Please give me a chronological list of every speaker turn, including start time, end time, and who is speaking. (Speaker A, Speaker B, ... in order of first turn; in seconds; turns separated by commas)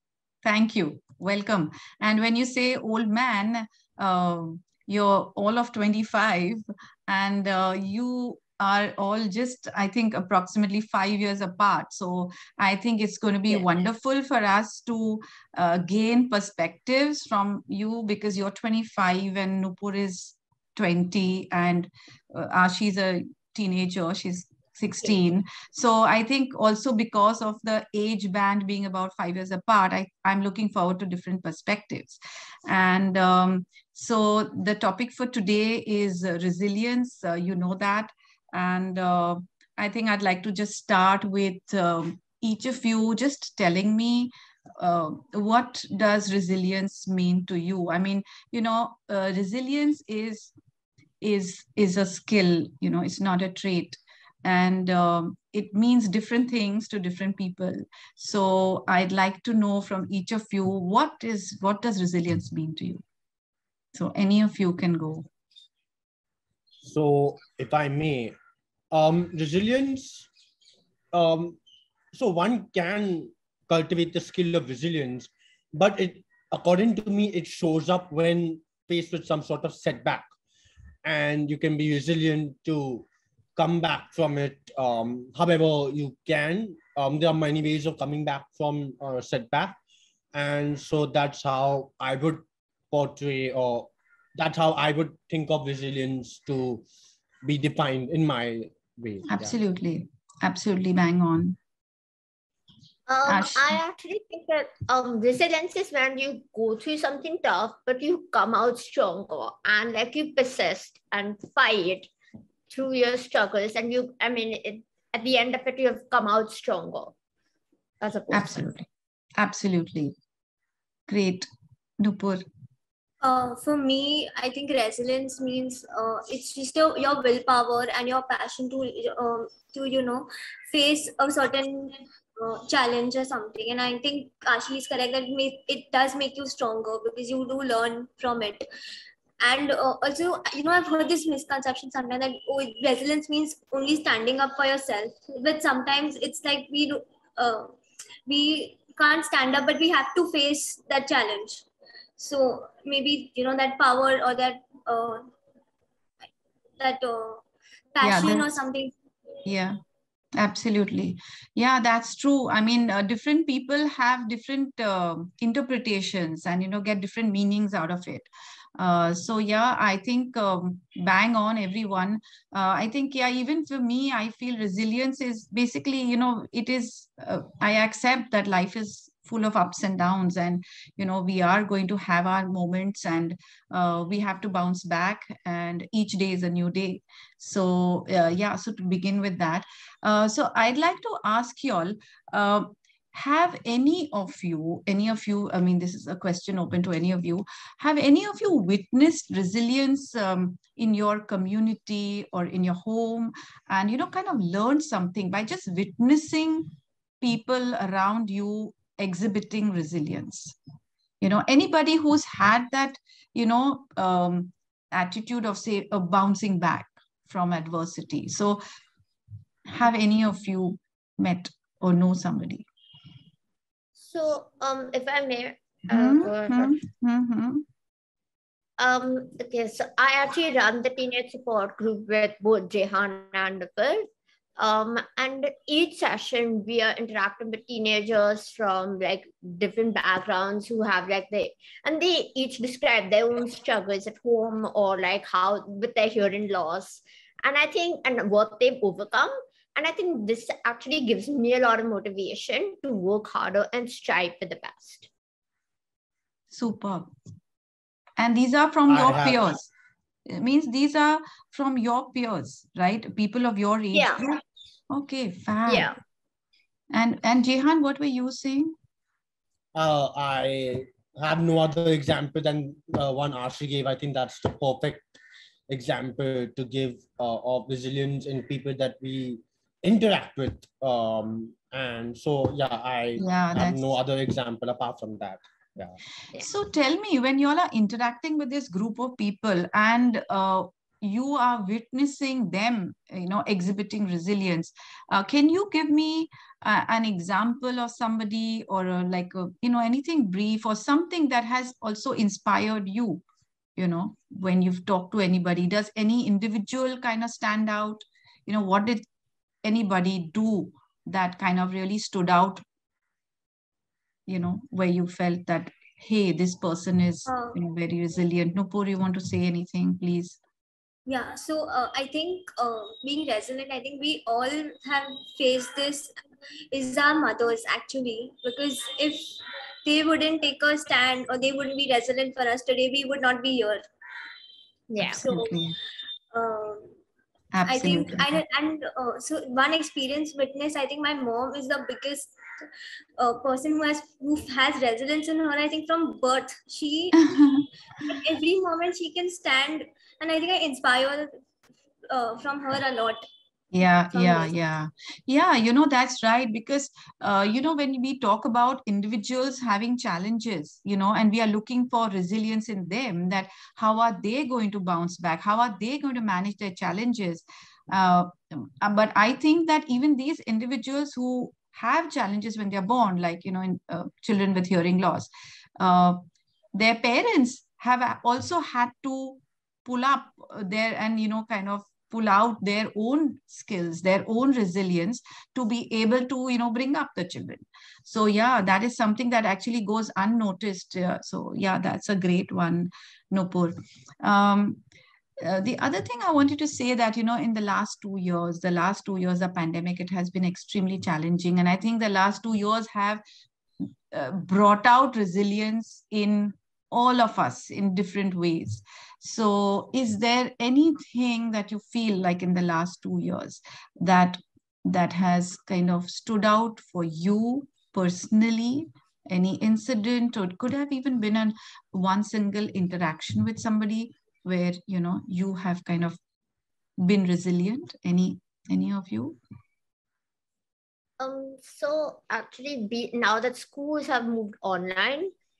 Speaker A: 0.4-50.5, Speaker A: 51.2-63.0, Speaker A: 63.9-65.3, Speaker B: 66.8-68.3, Speaker B: 68.9-70.3, Speaker B: 71.1-71.6, Speaker B: 72.1-80.3, Speaker B: 81.0-89.8, Speaker B: 90.3-96.8, Speaker B: 97.4-99.5, Speaker A: 99.3-101.6, Speaker C: 103.1-112.1, Speaker A: 103.2-103.8, Speaker C: 112.7-117.1, Speaker C: 118.0-118.7, Speaker A: 118.3-120.2, Speaker A: 121.1-121.5, Speaker A: 122.0-122.4, Speaker D: 123.2-138.7, Speaker D: 139.4-147.7, Speaker D: 148.3-151.7, Speaker D: 152.2-155.3, Speaker D: 156.8-158.9, Speaker A: 158.0-158.5, Speaker A: 159.5-159.8, Speaker A: 160.3-206.7, Speaker A: 207.2-210.6, Speaker A: 211.2-218.6, Speaker A: 219.7-222.7, Speaker C: 224.0-226.8, Speaker A: 225.9-227.7, Speaker C: 228.8-234.0, Speaker C: 234.6-255.1, Speaker A: 256.5-257.1, Speaker A: 258.2-259.7, Speaker B: 258.9-259.6, Speaker A: 260.2-265.9, Speaker C: 263.9-264.3, Speaker C: 265.7-266.0, Speaker A: 266.9-268.8, Speaker B: 269.8-275.1, Speaker B: 275.7-286.0, Speaker A: 283.2-283.9, Speaker A: 286.4-303.2, Speaker A: 303.8-309.0, Speaker A: 309.6-312.6, Speaker A: 314.3-320.4, Speaker D: 317.3-317.6, Speaker D: 321.1-326.1, Speaker D: 326.7-333.8, Speaker C: 334.9-335.2, Speaker A: 335.0-335.8, Speaker D: 335.2-335.6, Speaker D: 336.3-337.0, Speaker A: 337.5-338.4, Speaker D: 337.7-342.7, Speaker D: 343.2-347.2, Speaker A: 347.2-347.7, Speaker D: 348.0-351.4, Speaker D: 352.1-353.3, Speaker A: 353.7-394.8, Speaker D: 354.1-354.5, Speaker A: 395.4-403.2, Speaker A: 403.8-426.2, Speaker A: 427.0-429.4, Speaker C: 431.2-435.3